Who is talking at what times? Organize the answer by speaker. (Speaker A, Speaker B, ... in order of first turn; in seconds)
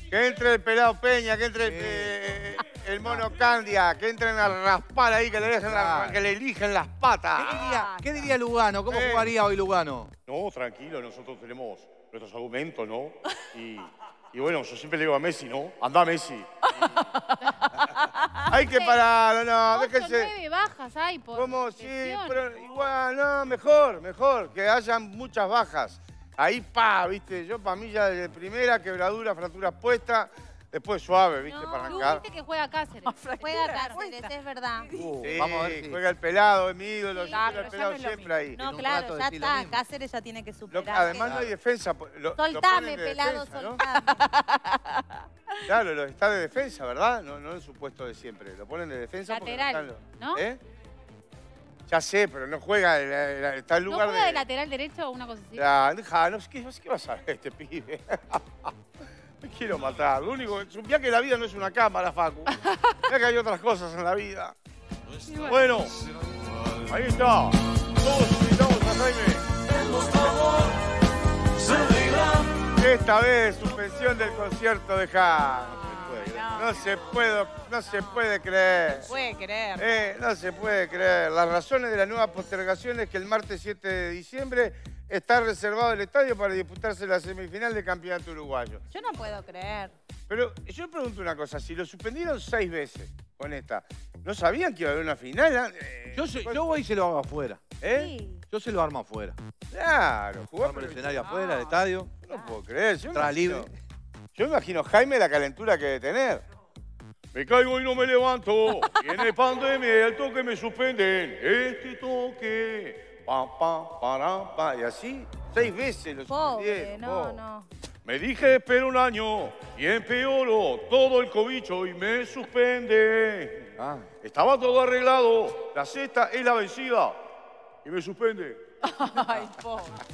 Speaker A: 0.1-7.6, 8.9-9.3, 10.3-17.1, 17.8-20.3, 21.3-32.2, 35.2-38.6, 40.7-43.8, 45.6-50.6, 51.9-54.5, 55.6-58.8, 59.4-64.6, 65.4-65.9, 66.8-69.5, 72.3-75.9, 76.5-79.1, 79.8-88.8, 90.3-96.7, 97.8-98.1, 99.7-101.3, 102.2-103.7, 104.3-106.4, 107.3-117.4, 118.0-127.2, 127.8-128.6
Speaker B: 1.6-2.2, 3.0-3.3, 5.7-6.2, 7.4-10.1, 34.9-36.0, 38.6-39.8, 41.2-41.5, 75.9-76.5, 96.2-97.7, 98.5-99.4, 100.6-102.1, 103.1-103.7, 123.8-124.1
Speaker C: 7.5-8.3, 16.8-18.4, 33.0-35.3, 37.3-38.3, 43.8-45.2, 75.9-76.9, 79.0-79.9, 101.2-101.8, 128.8-130.0
Speaker D: 18.5-19.0, 19.7-22.4, 31.9-33.8, 37.2-38.0, 49.3-50.4, 53.9-55.7, 65.3-65.6
Speaker E: 31.5-32.2, 33.4-34.9, 38.5-41.5, 42.4-44.3, 88.9-90.0, 97.9-98.4, 102.3-102.6, 116.3-117.7